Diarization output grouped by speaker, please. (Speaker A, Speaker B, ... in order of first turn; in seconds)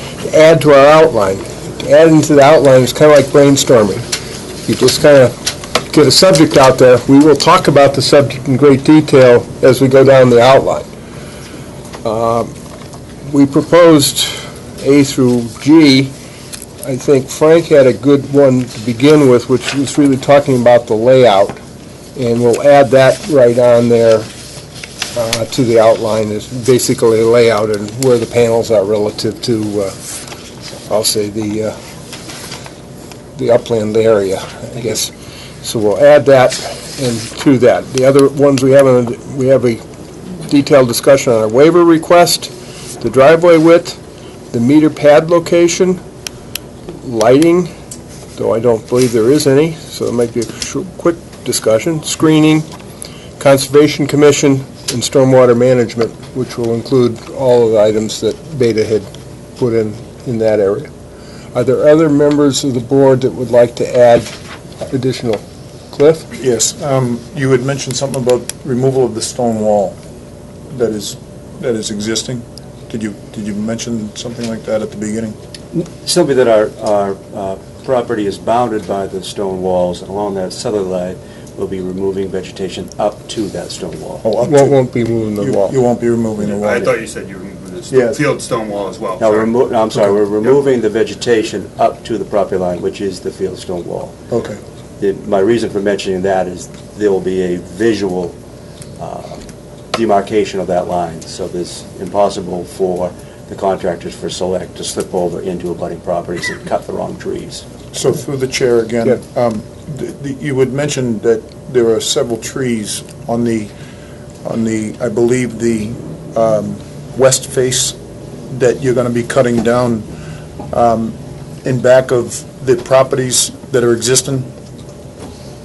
Speaker A: 0.2-4.0, 4.7-5.3, 5.9-10.9, 12.0-12.5, 13.2-16.1, 16.8-21.6, 22.1-24.3, 25.1-30.0, 30.9-31.8, 33.3-44.0, 44.5-46.0, 46.9-47.7, 48.4-52.7, 53.4-60.9, 61.5-64.3, 64.9-66.3, 84.4-85.7
Speaker B: 66.4-70.0, 70.7-75.3, 84.2-84.8, 85.3-86.9, 87.9-88.2, 94.3-94.6, 107.9-113.7, 114.4-118.0, 118.5-120.1, 120.7-124.5
Speaker C: 75.7-84.2, 89.2-94.2, 95.0-98.4, 99.0-107.6
Speaker D: 86.4-89.7, 90.2-90.7